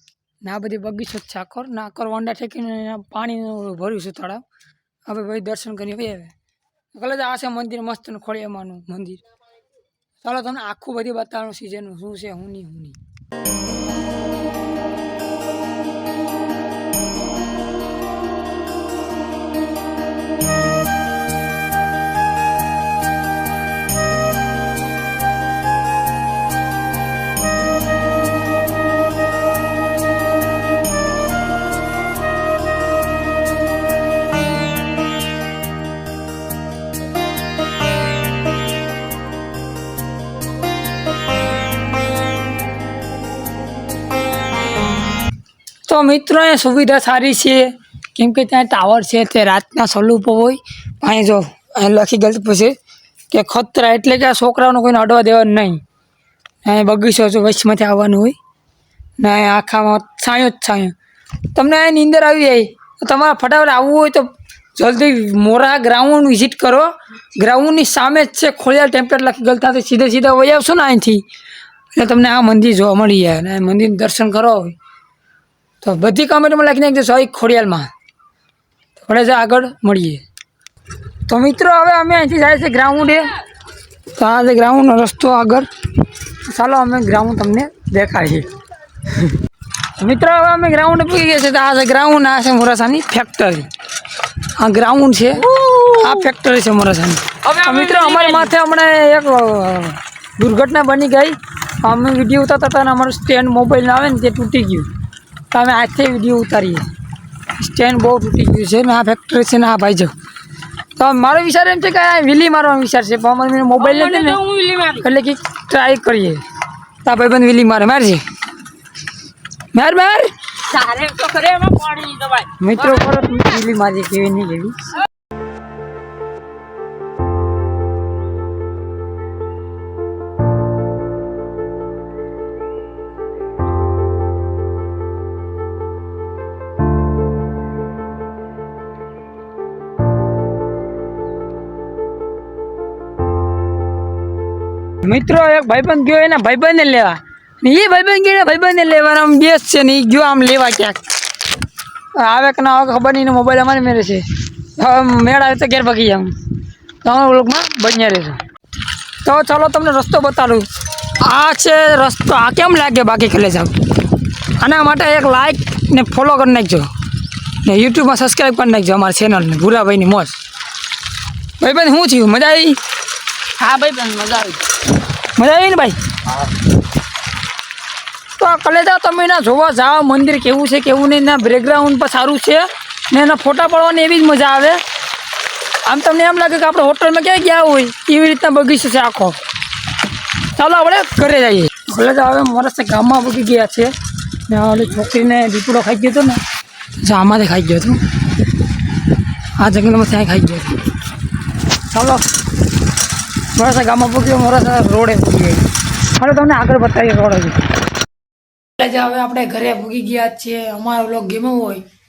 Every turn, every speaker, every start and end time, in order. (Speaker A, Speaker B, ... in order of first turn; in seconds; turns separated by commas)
Speaker A: 0.4-4.4, Speaker A: 5.1-6.3, Speaker A: 6.9-9.2, Speaker A: 10.2-13.0, Speaker A: 45.9-52.8, Speaker A: 53.3-55.8, Speaker A: 56.6-58.4, Speaker A: 59.2-60.9, Speaker A: 61.5-71.2, Speaker A: 71.9-74.8, Speaker A: 75.8-77.9, Speaker A: 79.0-80.2, Speaker A: 81.2-83.3, Speaker A: 84.1-85.7, Speaker A: 86.5-88.5, Speaker A: 90.0-93.7, Speaker A: 94.5-104.9, Speaker B: 97.8-98.1, Speaker A: 105.5-106.9, Speaker A: 107.5-110.1, Speaker A: 111.0-116.4, Speaker B: 113.9-115.0, Speaker A: 117.0-118.2, Speaker A: 119.7-120.3, Speaker B: 120.7-122.5, Speaker A: 122.6-124.9, Speaker A: 145.0-151.0, Speaker A: 152.1-154.2, Speaker A: 154.8-156.3, Speaker A: 157.0-158.4, Speaker A: 159.2-163.8, Speaker A: 164.5-166.9, Speaker A: 167.6-170.4, Speaker A: 171.6-172.8, Speaker B: 173.6-174.6, Speaker A: 175.3-176.0, Speaker A: 178.3-184.8, Speaker A: 185.8-189.4, Speaker A: 190.4-193.9, Speaker A: 194.5-196.4, Speaker A: 197.0-198.0, Speaker A: 199.6-200.8, Speaker A: 201.9-202.3, Speaker A: 203.5-207.7, Speaker A: 208.8-211.8